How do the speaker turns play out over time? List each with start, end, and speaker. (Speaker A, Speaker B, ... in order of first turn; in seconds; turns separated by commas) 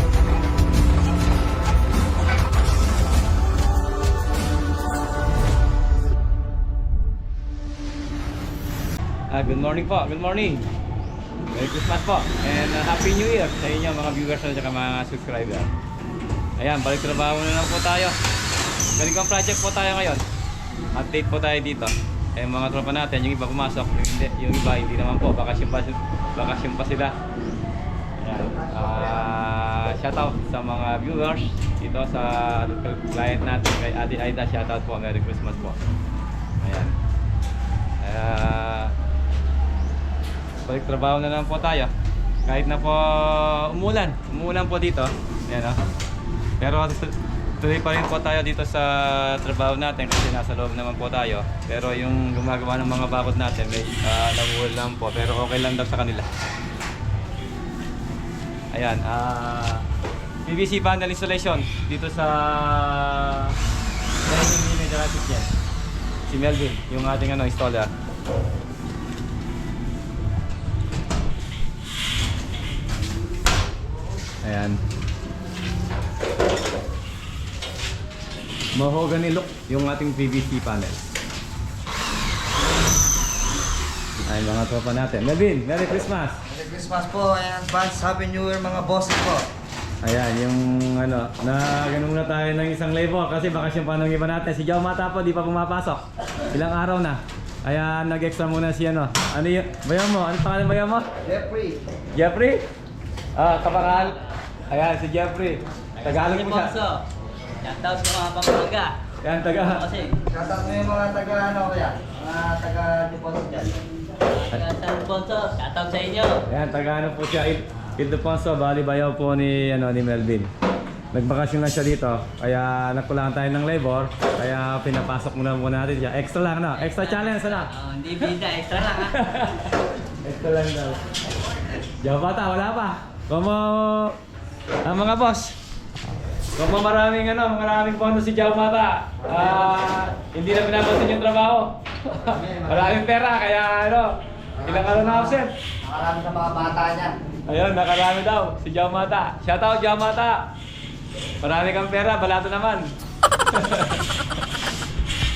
Speaker A: 9.3-10.7, Speaker A: 11.5-15.7, Speaker A: 16.6-18.2, Speaker A: 19.0-20.2, Speaker A: 20.9-27.1, Speaker A: 28.2-35.8, Speaker B: 28.5-29.2, Speaker A: 36.6-37.0, Speaker A: 38.0-38.9, Speaker A: 40.6-41.9, Speaker A: 42.5-45.8, Speaker A: 46.6-56.3, Speaker A: 58.7-59.8, Speaker A: 60.4-63.6, Speaker A: 64.2-65.5, Speaker A: 66.3-67.9, Speaker A: 74.4-74.8, Speaker A: 78.7-81.0, Speaker A: 84.2-86.4, Speaker B: 86.5-89.5, Speaker A: 90.0-101.1, Speaker B: 101.2-101.8, Speaker A: 102.1-102.6, Speaker A: 103.3-104.2, Speaker A: 104.7-106.8, Speaker C: 106.0-107.0, Speaker C: 107.6-109.0, Speaker A: 109.2-109.9, Speaker C: 109.5-110.2, Speaker B: 110.3-113.8, Speaker C: 114.5-116.4, Speaker A: 116.5-120.5, Speaker A: 121.1-127.7, Speaker C: 126.9-129.4, Speaker A: 129.1-129.7, Speaker A: 130.2-131.0, Speaker A: 132.0-134.2, Speaker A: 134.8-135.6, Speaker A: 136.6-145.5, Speaker B: 142.2-143.0, Speaker B: 144.6-147.2, Speaker A: 147.5-150.5, Speaker A: 151.4-152.9, Speaker A: 153.5-154.0